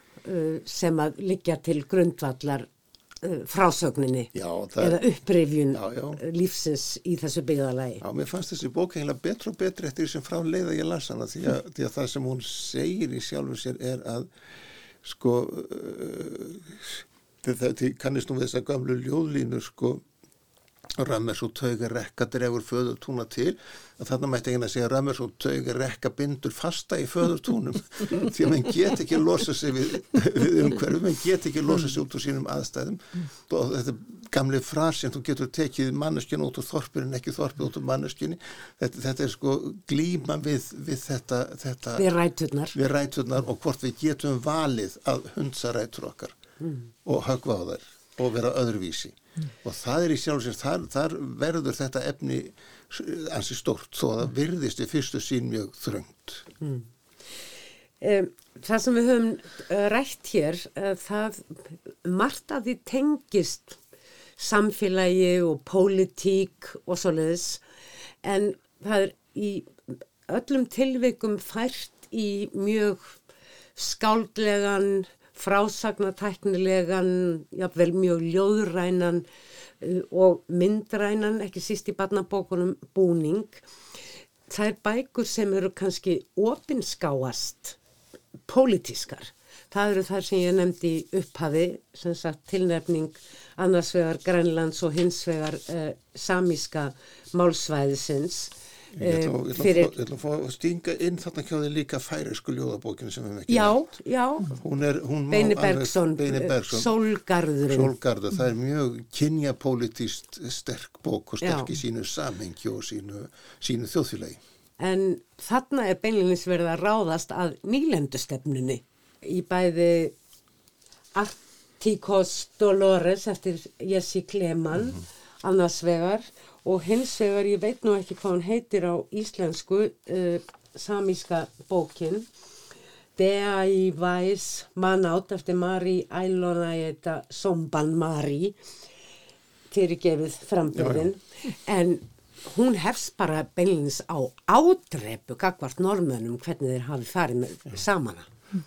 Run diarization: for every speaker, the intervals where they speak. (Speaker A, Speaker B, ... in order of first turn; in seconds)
Speaker A: 0.2-2.7, 3.2-8.0, 42.0-42.8, 46.6-46.9, 56.6-56.9, 58.0-63.8, 64.4-67.6, 68.2-69.7, 70.3-73.2, 73.8-79.3, 79.8-83.6, 84.5-87.8, 88.5-99.9, 103.5-104.5, 105.3-107.9, 111.4-111.7, 114.8-120.1, 121.1-132.3, 133.2-138.6, 139.7-148.3
Speaker B: 4.3-5.0, 5.7-6.2, 8.0-14.3, 15.0-20.0, 20.9-42.1, 42.7-46.4, 47.0-56.5, 99.0-103.8, 104.5-107.0, 107.7-114.4, 140.8-141.1